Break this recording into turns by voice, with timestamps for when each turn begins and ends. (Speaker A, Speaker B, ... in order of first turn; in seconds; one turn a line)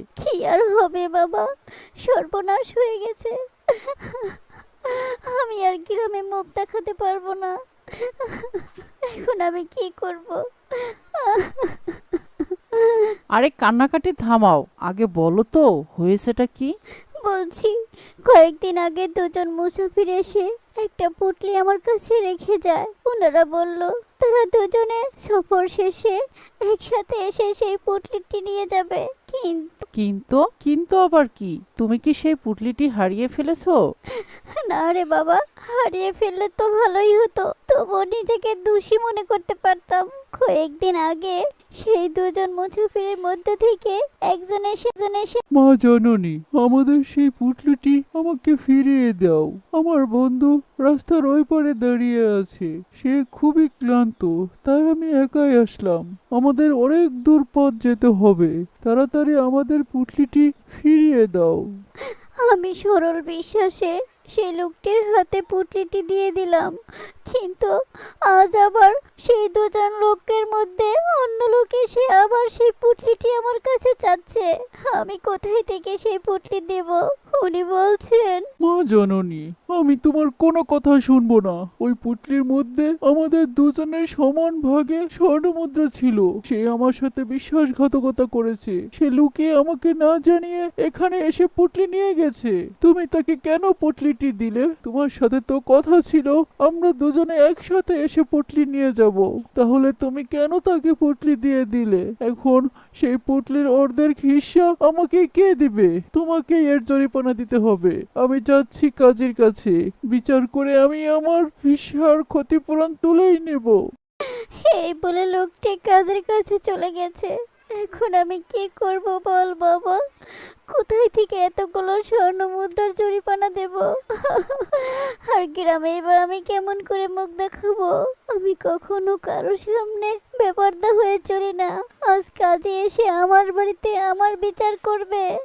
Speaker A: 0.2-1.5
Speaker A: 2.0-12.2
Speaker A: 12.8-13.2
Speaker B: 13.3-16.7
Speaker A: 17.2-17.7
Speaker A: 18.3-29.9
Speaker B: 29.9-33.8
Speaker A: 34.2-45.4
Speaker C: 45.5-61.6
Speaker A: 62.5-66.7
Speaker A: 67.3-67.7
Speaker A: 68.3-78.4
Speaker C: 78.6-113.8
Speaker A: 114.3-135.3